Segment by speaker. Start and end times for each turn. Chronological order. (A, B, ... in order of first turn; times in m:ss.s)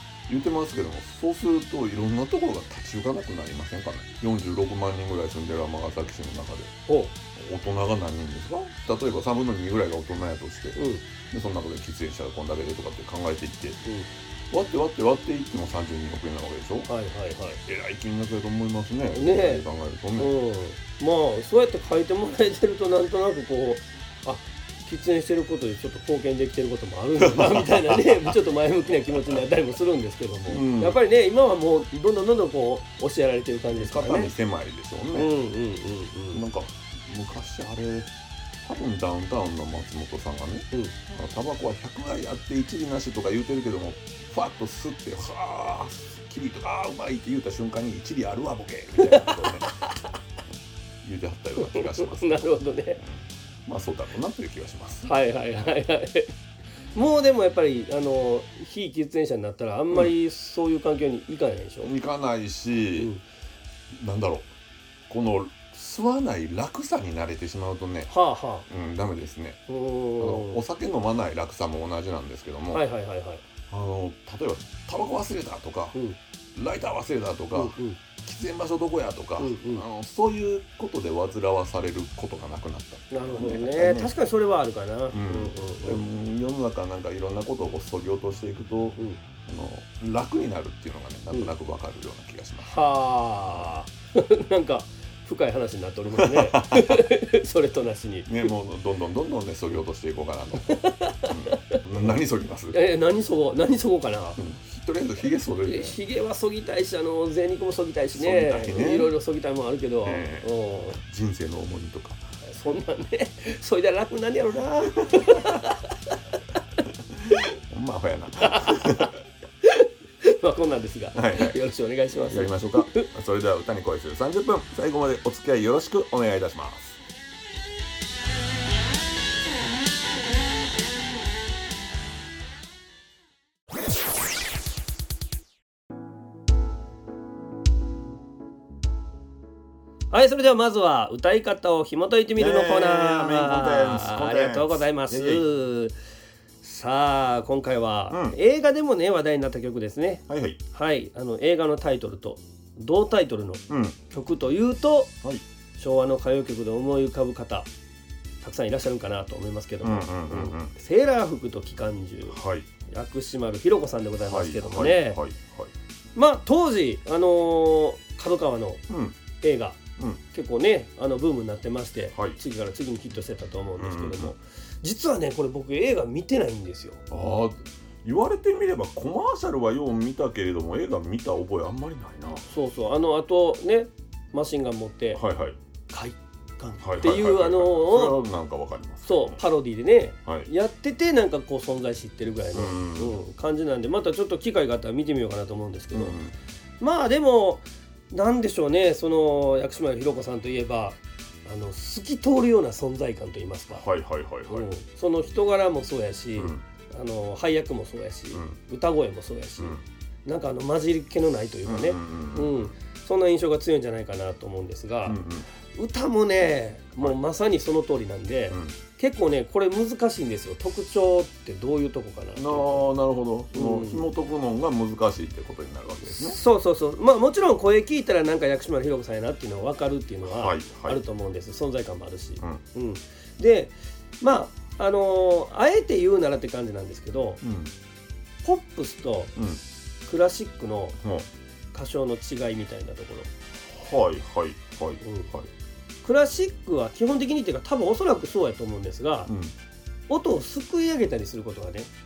0:00.3-0:06.8 A
0:06.9-0:07.1 B
0:07.3-0:10.8 A
0:10.7-0:11.0 B
0:11.3-0:13.8 A
0:14.5-0:16.9 A
0:16.9-0:17.6 B
0:17.6-0:20.3 A
0:19.1-0:19.6 B
0:20.2-0:34.3 B
0:27.2-0:28.3 A
0:30.5-0:31.0 A
0:33.7-0:35.3 A
0:35.1-0:36.4 B
0:36.3-0:38.1 A
0:38.6-0:49.7 A
0:49.0-0:49.6 B
0:51.0-0:52.5 A
0:51.6-0:53.0 B
0:53.0-0:55.0 A
0:55.0-0:56.3 B
0:56.9-1:01.9 B
1:01.8-1:03.1 A
1:03.0-1:03.2 B
1:03.9-1:04.5 A
1:05.1-1:08.1 A
1:08.1-1:08.7 B
1:08.7-1:09.6 A
1:09.7-1:10.6 B
1:10.2-1:12.8 A
1:12.7-1:13.4 B
1:13.7-1:16.0 A
1:16.5-1:24.1 A
1:17.5-1:18.0 B
1:19.4-1:19.8 B
1:23.1-1:26.0 B
1:25.1-1:32.8 A
1:32.6-1:38.5 B
1:36.1-1:37.1 A
1:38.2-1:42.8 A
1:40.6-1:42.1 B
1:42.7-1:44.4 B
1:44.4-1:46.0 A
1:45.6-1:51.0 B
1:48.2-1:49.1 A
1:50.0-1:52.2 A
1:52.4-1:55.9 B
1:55.1-1:55.4 A
1:57.1-1:59.1 A
1:58.4-1:59.1 B
1:59.6-2:03.1 B
2:01.1-2:01.6 A
2:02.3-2:07.0 A
2:20.1-2:25.9 B
2:22.3-2:25.4 A
2:26.6-2:35.1 B
2:28.1-2:28.4 A
2:30.3-2:30.6 A
2:33.7-2:34.0 A
2:35.8-2:37.7 B
2:38.4-2:45.2 B
2:39.8-2:40.7 A
2:42.3-2:42.7 A
2:44.2-2:45.7 A
2:46.2-2:48.8 B
2:48.9-2:49.2 A
2:49.4-2:57.0 B
2:53.8-2:54.3 A
2:57.1-3:02.5 A
3:02.5-3:05.2 B
3:05.1-3:05.6 A
3:05.9-3:08.2 B
3:06.8-3:09.4 A
3:09.0-3:16.2 B
3:12.5-3:13.2 A
3:15.9-3:16.3 A
3:16.8-3:23.8 B
3:23.7-3:24.7 A
3:24.5-3:35.2 B
3:26.4-3:26.6 A
3:28.3-3:28.6 A
3:31.6-3:32.7 A
3:35.0-3:35.5 A
3:35.7-3:42.9 B
3:38.5-3:38.8 A
3:42.4-3:46.4 A
3:43.5-3:44.1 B
3:46.0-3:57.4 B
3:50.2-3:51.0 A
3:57.4-3:57.7 A
3:58.4-3:59.4 B
4:00.0-4:01.0 B
4:01.0-4:01.3 A
4:01.7-4:03.3 B
4:03.6-4:05.5 A
4:05.0-4:05.3 B
4:06.0-4:09.3 B
4:09.3-4:09.5 A
4:10.1-4:11.9 B